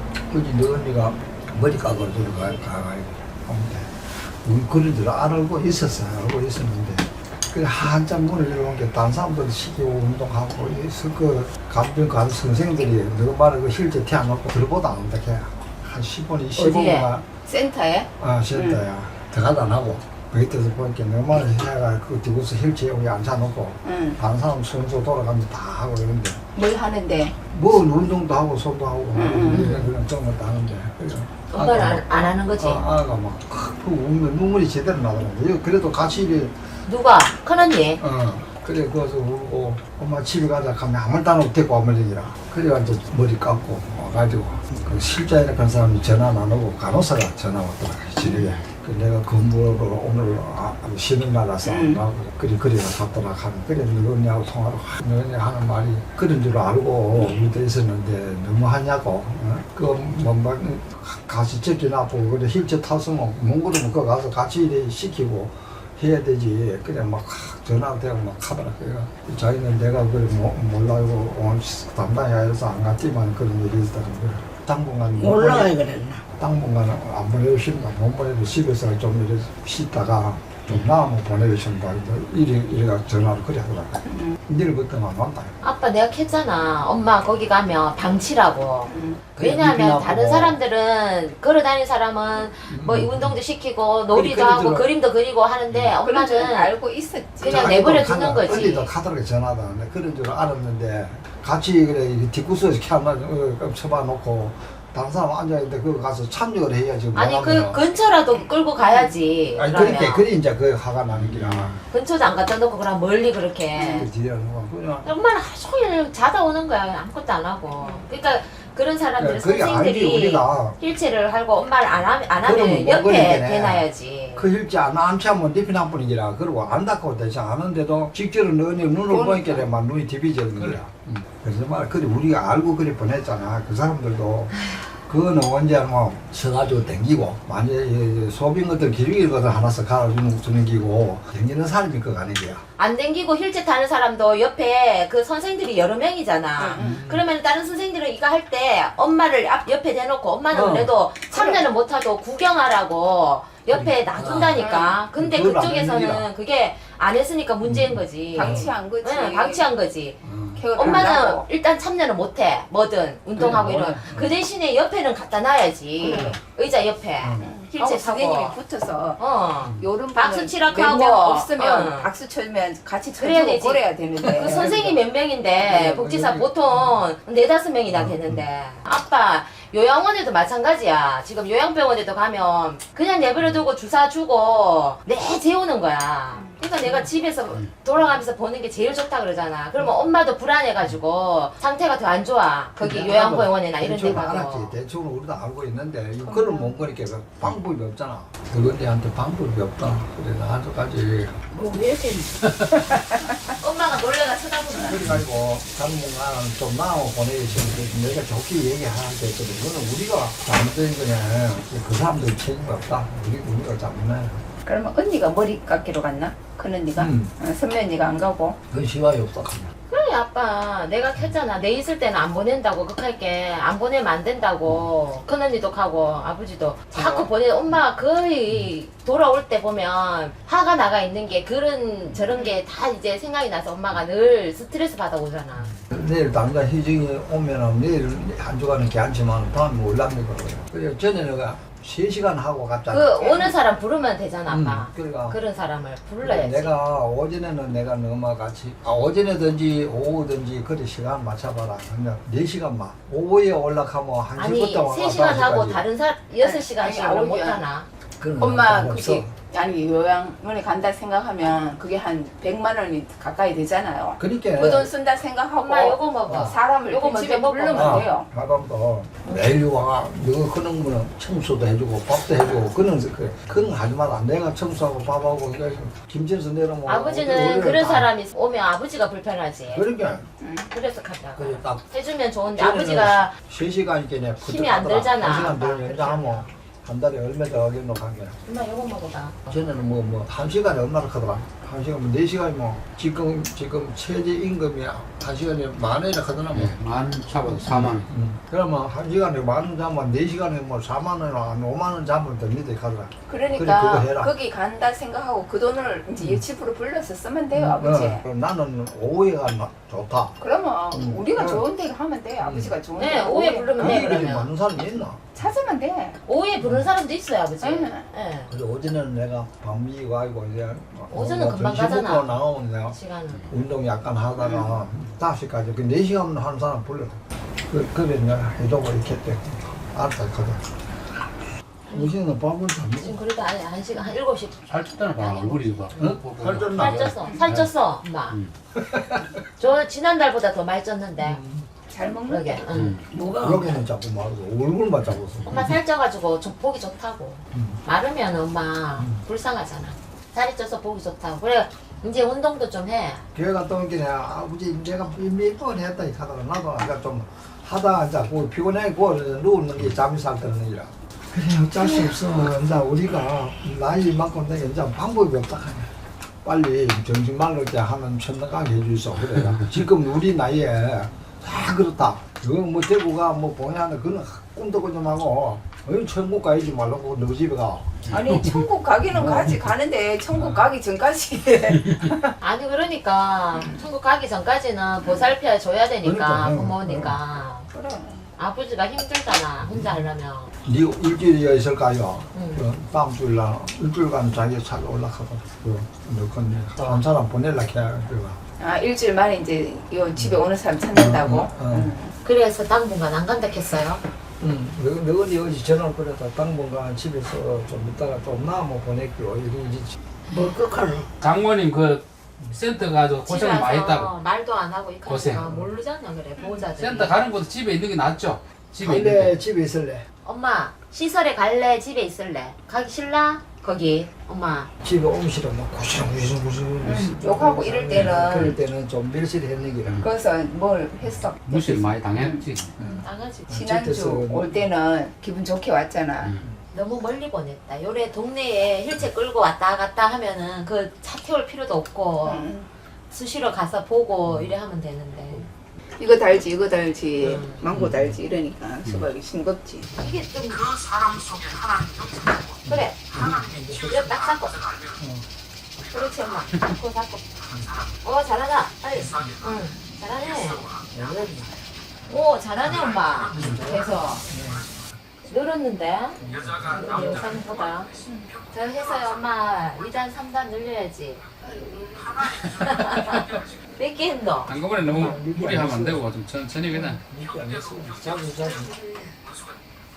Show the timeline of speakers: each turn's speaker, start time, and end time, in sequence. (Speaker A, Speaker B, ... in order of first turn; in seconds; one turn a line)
Speaker A: 0.3-17.2
Speaker B: 16.6-17.1
Speaker C: 17.4-18.8
Speaker A: 18.2-26.4
Speaker C: 23.8-24.2
Speaker C: 26.5-27.3
Speaker A: 27.4-36.6
Speaker C: 29.1-29.8
Speaker B: 29.5-29.9
Speaker B: 31.5-32.8
Speaker B: 36.9-38.0
Speaker A: 38.0-75.7
Speaker C: 48.2-48.6
Speaker C: 51.6-52.0
Speaker D: 75.2-76.2
Speaker A: 76.4-85.5
Speaker C: 84.1-84.3
Speaker B: 85.6-96.7
Speaker C: 88.9-89.2
Speaker A: 89.3-90.6
Speaker A: 92.7-93.4
Speaker A: 94.1-94.9
Speaker C: 96.0-97.9
Speaker B: 97.4-98.9
Speaker A: 97.5-107.8
Speaker C: 98.4-98.8
Speaker B: 107.1-110.3
Speaker C: 108.3-109.1
Speaker A: 109.5-111.8
Speaker E: 111.1-111.8
Speaker B: 111.9-114.1
Speaker A: 113.8-115.1
Speaker B: 115.0-124.5
Speaker C: 117.8-118.1
Speaker A: 119.2-120.8
Speaker A: 122.4-142.6
Speaker C: 129.1-129.6
Speaker B: 142.8-160.2
Speaker C: 146.6-147.0
Speaker A: 146.8-147.2
Speaker A: 150.5-150.9
Speaker C: 151.3-151.7
Speaker A: 153.7-156.3
Speaker C: 154.5-155.0
Speaker A: 157.6-158.7
Speaker C: 158.3-159.7
Speaker A: 160.2-161.1
Speaker C: 160.6-161.5
Speaker B: 160.7-168.6
Speaker A: 163.3-164.4
Speaker C: 166.0-166.4
Speaker A: 166.0-166.4
Speaker A: 167.2-167.5
Speaker C: 167.4-169.2
Speaker B: 169.2-172.1
Speaker C: 169.8-174.7
Speaker B: 173.2-194.8
Speaker A: 174.4-175.0
Speaker A: 175.6-176.6
Speaker A: 177.9-178.4
Speaker C: 186.3-187.1
Speaker C: 189.8-190.1
Speaker C: 192.8-193.1
Speaker A: 192.8-201.4
Speaker C: 196.2-196.7
Speaker D: 201.5-202.3
Speaker C: 202.9-203.2
Speaker B: 203.6-205.0
Speaker A: 204.8-214.4
Speaker C: 214.7-218.6
Speaker A: 216.9-217.3
Speaker A: 218.7-219.7
Speaker B: 219.9-235.7
Speaker C: 226.9-227.3
Speaker C: 232.3-232.6
Speaker A: 235.7-243.3
Speaker B: 242.9-246.7
Speaker C: 243.2-243.5
Speaker A: 244.4-245.4
Speaker A: 246.2-255.8
Speaker B: 254.3-257.9
Speaker C: 256.4-257.6
Speaker A: 258.2-259.3
Speaker C: 258.4-268.3
Speaker A: 264.2-264.9
Speaker B: 265.6-268.1
Speaker A: 267.7-278.1
Speaker B: 276.9-279.8
Speaker A: 279.7-280.3
Speaker C: 280.4-280.7
Speaker B: 280.7-283.3
Speaker A: 281.4-281.9
Speaker A: 282.5-288.4
Speaker B: 284.4-286.5
Speaker B: 288.4-289.4
Speaker A: 289.5-296.7
Speaker E: 296.5-298.1
Speaker A: 297.3-304.3
Speaker C: 303.3-308.2
Speaker A: 307.5-310.4
Speaker C: 310.4-314.0
Speaker A: 310.9-311.6
Speaker A: 312.4-312.7
Speaker B: 313.0-314.5
Speaker A: 313.8-315.3
Speaker C: 315.3-316.2
Speaker B: 316.2-318.5
Speaker A: 316.6-316.9
Speaker C: 317.6-318.1
Speaker A: 318.5-330.8
Speaker B: 321.1-322.4
Speaker B: 322.9-323.5
Speaker C: 324.4-324.8
Speaker A: 331.9-333.2
Speaker B: 333.0-336.2
Speaker E: 334.7-337.7
Speaker A: 335.9-337.1
Speaker B: 336.7-338.4
Speaker A: 338.8-339.3
Speaker B: 339.6-341.4
Speaker A: 341.2-341.7
Speaker C: 341.9-342.7
Speaker B: 342.2-342.9
Speaker E: 342.7-343.1
Speaker D: 343.1-343.7
Speaker A: 343.4-345.7
Speaker B: 345.4-353.2
Speaker A: 347.5-347.8
Speaker A: 353.3-365.9
Speaker A: 366.4-378.0
Speaker C: 378.1-382.3
Speaker A: 379.1-379.5
Speaker A: 380.3-380.6
Speaker B: 382.4-387.7
Speaker C: 385.0-385.3
Speaker A: 386.0-387.2
Speaker C: 387.7-388.3
Speaker B: 388.4-390.5
Speaker A: 390.6-398.4
Speaker B: 392.3-392.6
Speaker C: 398.6-402.1
Speaker A: 400.9-401.9
Speaker B: 402.2-404.0
Speaker A: 404.4-409.9
Speaker D: 410.3-411.1
Speaker E: 411.2-414.1
Speaker B: 413.2-417.1
Speaker E: 415.1-415.6
Speaker C: 416.4-416.7
Speaker E: 416.8-419.3
Speaker A: 418.8-420.1
Speaker B: 420.2-424.7
Speaker A: 424.8-430.1
Speaker C: 426.8-428.5
Speaker E: 427.9-428.5
Speaker C: 430.0-432.4
Speaker E: 431.4-432.7
Speaker A: 432.8-434.5
Speaker B: 433.0-433.5
Speaker C: 433.5-436.3
Speaker E: 436.2-436.4
Speaker B: 436.7-442.5
Speaker C: 442.2-442.7
Speaker B: 443.1-445.5
Speaker C: 446.0-449.9
Speaker B: 447.2-447.6
Speaker B: 450.0-450.6
Speaker E: 450.7-452.3
Speaker A: 452.6-453.9
Speaker B: 452.7-453.0
Speaker B: 453.7-454.6
Speaker A: 455.0-455.2
Speaker C: 455.9-456.7
Speaker B: 455.9-457.2
Speaker B: 458.0-460.7
Speaker A: 459.0-459.3
Speaker A: 460.9-461.4
Speaker B: 462.1-464.2
Speaker A: 463.3-463.8
Speaker C: 463.6-464.2
Speaker A: 464.3-464.6
Speaker B: 465.2-467.9
Speaker A: 466.2-467.3
Speaker E: 466.5-467.3
Speaker B: 468.5-471.2
Speaker D: 471.4-472.5
Speaker B: 472.5-473.2
Speaker E: 472.8-473.1
Speaker B: 473.7-474.5
Speaker E: 474.4-477.0
Speaker A: 474.8-476.0
Speaker A: 476.7-478.7
Speaker D: 478.1-479.1